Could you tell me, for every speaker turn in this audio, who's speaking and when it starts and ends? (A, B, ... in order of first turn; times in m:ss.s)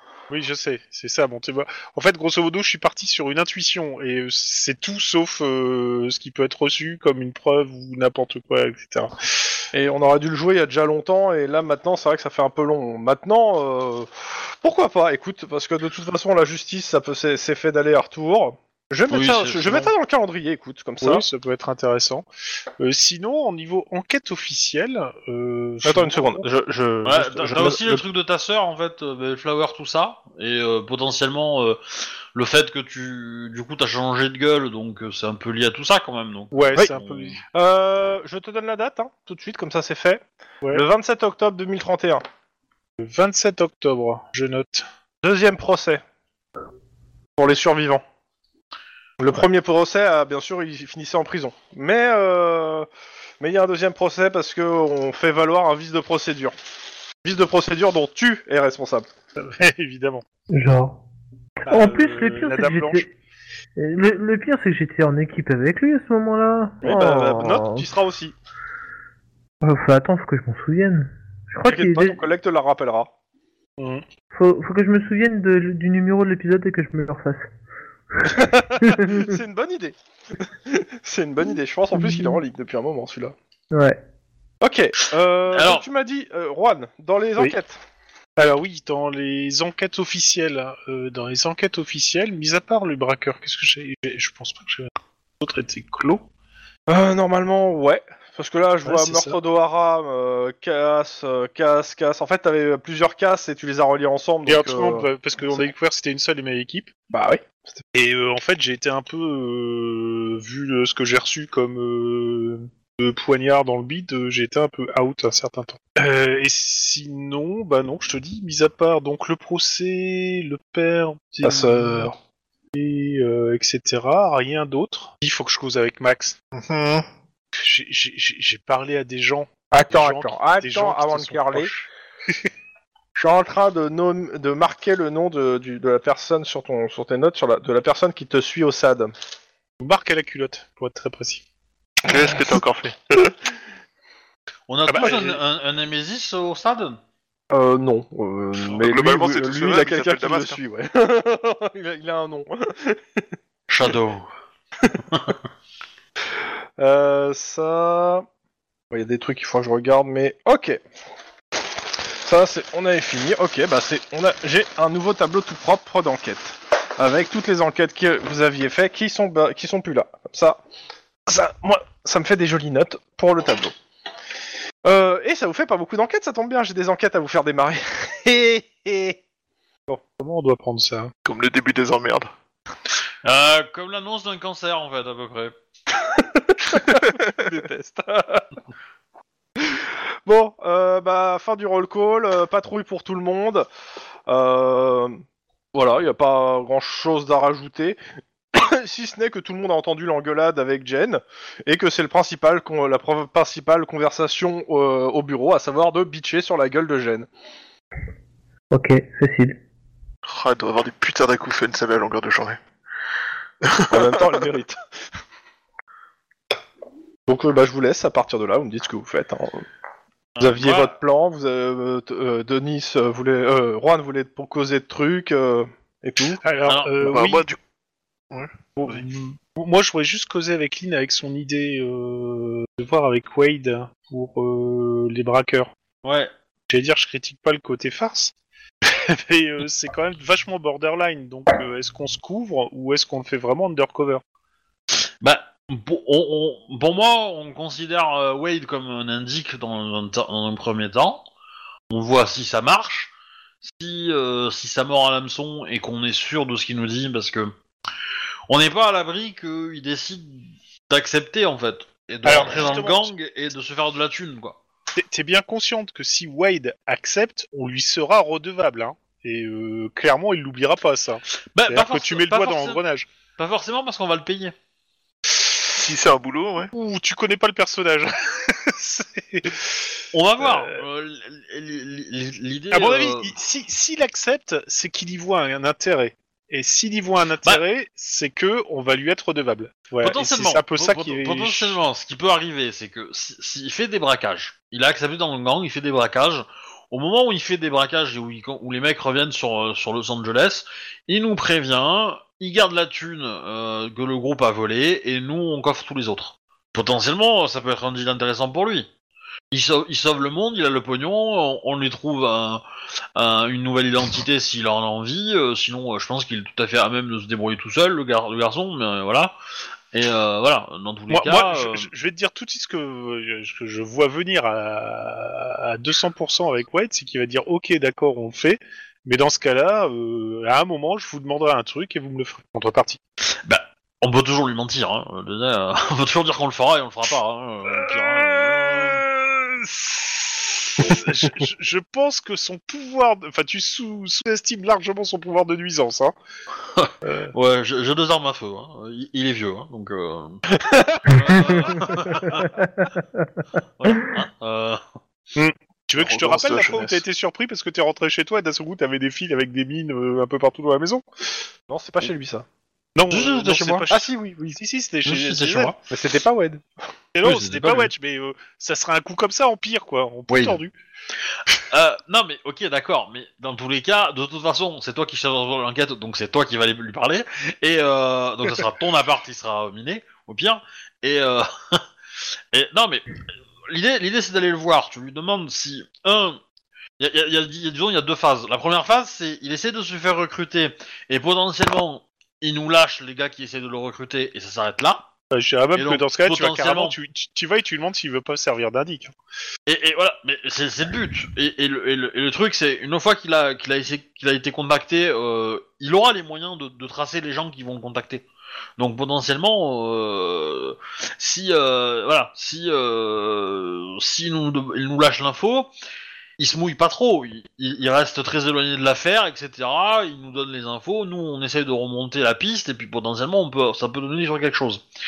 0:00.3-0:09.1 A
0:09.7-0:21.2 B
0:19.1-0:19.9 C
0:21.0-0:22.2 A
0:22.8-0:26.4 A
0:25.8-0:28.0 B
0:27.0-0:37.4 C
0:36.5-0:37.4 A
0:37.5-0:42.2 B
0:43.0-0:44.8 A
0:45.2-0:46.0 B
0:47.4-0:48.0 B
0:49.2-0:52.9 B
0:53.4-0:56.5 B
0:57.2-0:59.1 B
0:59.4-1:00.2 A
1:00.5-1:01.0 D
1:01.6-1:03.1 D
1:01.7-1:03.0 A
1:03.8-1:07.9 D
1:06.8-1:08.3 B
1:09.6-1:12.2 D
1:11.6-1:13.1 B
1:13.8-1:14.0 A
1:14.3-1:17.5 D
1:18.2-1:19.3 D
1:18.2-1:23.3 B
1:21.9-1:22.4 D
1:23.7-1:24.0 D
1:24.6-1:27.8 B
1:25.5-1:25.8 C
1:28.4-1:36.2 A
1:36.9-1:45.6 B
1:38.8-1:39.4 A
1:44.4-1:46.9 A
1:47.1-1:47.8 B
1:47.9-2:02.1 A
2:01.4-2:02.1 B
2:02.7-2:06.4 A
2:06.5-2:07.0 E
2:07.5-2:11.9 A
2:09.7-2:11.7 B
2:13.2-2:19.1 B
2:19.8-2:21.4 A
2:22.0-2:23.2 E
2:24.7-2:27.0 C
2:24.9-2:25.4 A
2:27.5-2:33.2 B
2:28.6-2:30.6 E
2:33.7-2:34.3 C
2:36.8-2:38.2 B
2:38.9-2:40.8 B
2:42.2-2:50.6 B
2:51.3-2:53.7 B
2:54.8-2:59.2 B
3:00.2-3:01.1 A
3:01.2-3:02.3 E
3:03.2-3:05.5 C
3:06.0-3:08.4 B
3:09.6-3:13.7 B
3:14.3-3:15.2 B
3:15.7-3:18.0 B
3:18.5-3:27.3 B
3:28.7-3:29.6 D
3:30.3-3:32.6 E
3:33.6-3:34.3 E
3:33.9-3:34.8 B
3:37.3-3:39.6 B
3:40.4-3:40.9 C
3:40.4-3:46.4 B
3:46.4-3:47.5 A
3:46.6-3:46.9 C
3:47.0-3:47.6 E
3:48.3-3:49.0 E
3:48.8-3:55.7 A
3:56.0-3:56.3 C
3:56.7-3:58.3 A
3:58.9-4:04.2 A
4:05.2-4:11.2 C
4:11.9-4:13.1 C
4:13.6-4:17.5 C
4:18.5-4:24.6 C
4:22.2-4:23.1 A
4:25.0-4:33.1 A
4:31.5-4:32.8 C
4:33.4-4:34.5 C
4:35.7-4:36.7 E
4:36.7-4:39.6 A
4:40.1-4:43.3 C
4:40.4-4:40.8 A
4:42.7-4:51.8 A
4:50.0-5:08.9 C
5:09.5-5:12.6 C
5:13.2-5:19.3 C
5:19.9-5:21.9 C
5:21.1-5:33.0 A
5:33.4-5:39.0 C
5:37.8-5:40.2 A
5:40.8-5:46.1 A
5:46.7-5:50.4 C
5:47.0-5:47.3 A
5:50.5-5:51.1 B
5:51.0-5:52.6 C
5:51.3-5:51.7 D
5:52.3-5:53.0 D
5:53.8-5:54.8 C
5:55.3-6:01.0 A
5:56.0-5:57.0 E
6:01.7-6:02.4 B
6:03.0-6:05.8 A
6:03.1-6:03.8 C
6:03.9-6:04.6 B
6:05.0-6:05.8 C
6:05.9-6:06.6 B
6:07.1-6:10.7 A
6:07.2-6:07.9 C
6:10.3-6:10.6 C
6:11.7-6:21.8 C
6:22.5-6:23.1 C
6:23.7-6:26.4 C
6:27.0-6:35.1 C
6:35.3-6:39.1 A
6:35.8-6:37.0 C
6:39.7-6:48.3 C
6:48.8-6:55.7 C
6:56.4-7:04.8 C